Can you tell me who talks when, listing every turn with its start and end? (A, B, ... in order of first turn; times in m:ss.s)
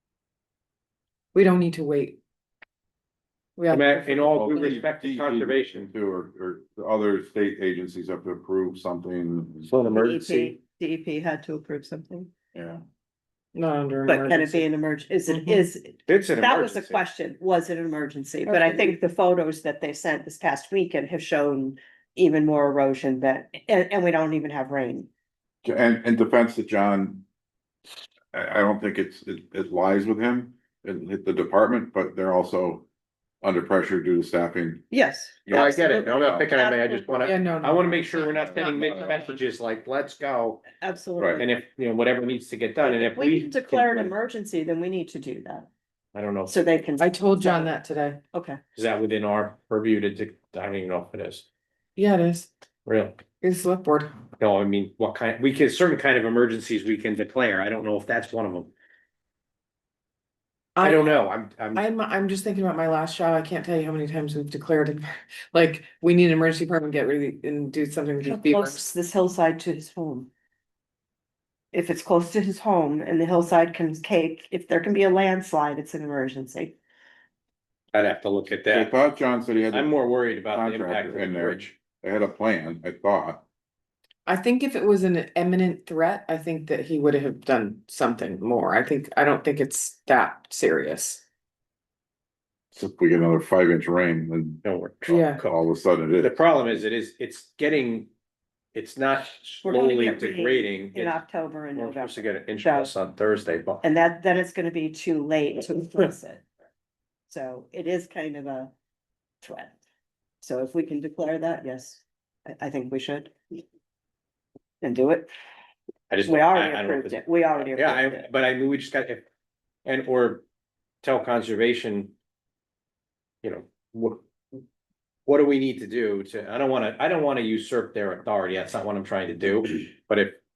0:01.3-0:02.2 A
0:03.6-0:04.8 A
0:03.7-0:05.9 B
0:04.3-0:09.7 C
0:09.7-0:10.6 B
0:09.9-0:12.3 D
0:12.5-0:12.8 C
0:13.6-0:14.7 A
0:14.1-0:25.1 D
0:16.1-0:17.0 B
0:18.5-0:18.9 A
0:25.6-0:27.3 C
0:28.3-0:32.9 C
0:33.4-0:34.9 C
0:34.9-0:37.3 D
0:35.4-0:36.5 C
0:35.5-0:40.6 B
0:37.2-0:39.3 A
0:38.7-0:39.0 C
0:40.8-0:41.6 D
0:41.4-0:44.1 B
0:42.8-0:45.7 D
0:46.2-0:46.5 B
0:46.5-0:47.7 D
0:47.0-0:48.2 A
0:48.3-0:48.6 D
0:48.8-0:51.4 B
0:52.0-0:52.5 A
0:52.9-0:53.2 B
0:53.4-0:54.1 A
0:54.4-0:58.7 B
1:00.8-1:01.0 A
1:00.8-1:01.8 B
1:01.8-1:08.8 A
1:08.3-1:10.3 D
1:11.7-1:16.8 D
1:17.9-1:18.9 B
1:18.7-1:23.4 C
1:19.7-1:21.7 B
1:24.3-1:31.2 A
1:32.7-1:34.6 C
1:34.6-1:35.5 B
1:35.1-1:35.4 A
1:35.2-1:36.8 C
1:36.2-1:38.1 B
1:38.7-1:41.2 B
1:39.6-1:42.9 D
1:41.7-1:43.8 B
1:43.8-1:46.4 D
1:47.3-1:48.7 D
1:49.4-1:49.8 D
1:50.4-1:53.6 D
1:54.8-1:55.3 D
1:56.1-1:59.2 B
1:56.2-1:58.3 D
1:59.8-2:00.4 B
2:01.0-2:02.1 B
2:03.4-2:04.6 B
2:05.3-2:10.4 B